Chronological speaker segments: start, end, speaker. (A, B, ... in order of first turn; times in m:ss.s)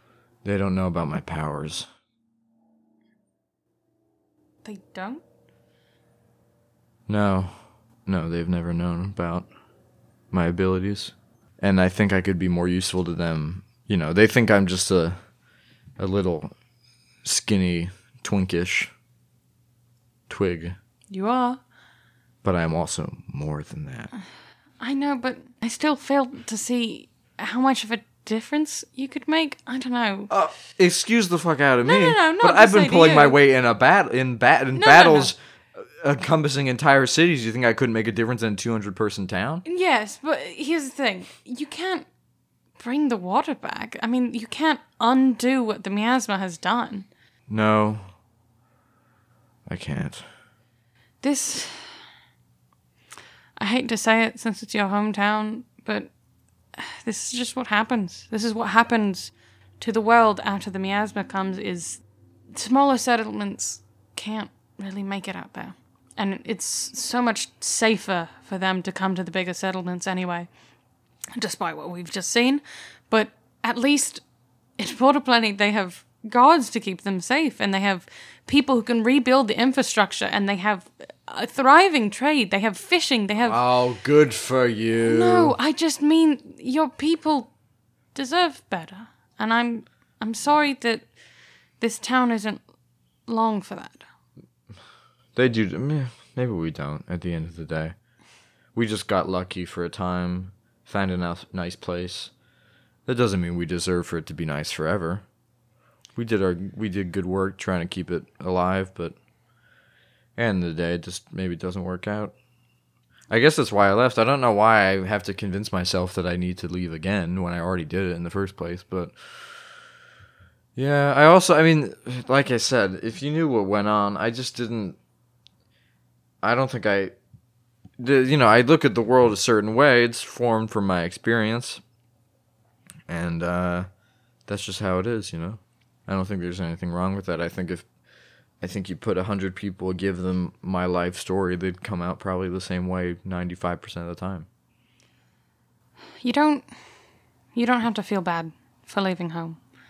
0:00.4-0:01.9 A
0:04.6-0:05.2 B
0:07.1-0:09.5 A
0:10.3-0:15.2 A
0:16.0-0:16.5 A
0:17.2-0:18.9 A
0:20.3-0:20.8 A
0:21.1-0:21.6 B
0:22.4-0:24.1 A
0:24.8-0:30.3 B
0:30.3-0:39.6 A
0:31.8-0:33.4 B
0:34.7-0:35.3 B
0:39.7-0:42.1 B
0:42.8-0:47.1 B
0:47.5-0:48.1 A
0:49.7-0:50.2 A
0:51.2-0:52.0 B
0:53.6-0:56.1 B
0:56.8-1:02.0 B
1:02.5-1:10.5 B
1:11.4-1:14.2 B
1:14.8-1:23.6 B
1:23.4-1:25.6 A
1:25.0-1:27.5 B
1:28.1-1:31.1 B
1:31.8-1:32.6 B
1:33.3-1:34.0 B
1:35.4-1:38.0 A
1:38.8-1:42.3 A
1:43.1-1:45.2 A
1:46.2-1:49.2 A
1:50.4-1:52.3 A
1:53.3-1:59.8 A
2:00.8-2:05.0 A
2:06.4-2:07.1 A
2:08.0-2:11.8 A
2:13.1-2:13.9 A
2:14.5-2:17.8 A
2:18.6-2:24.5 A
2:26.2-2:26.6 B
2:27.5-2:29.6 B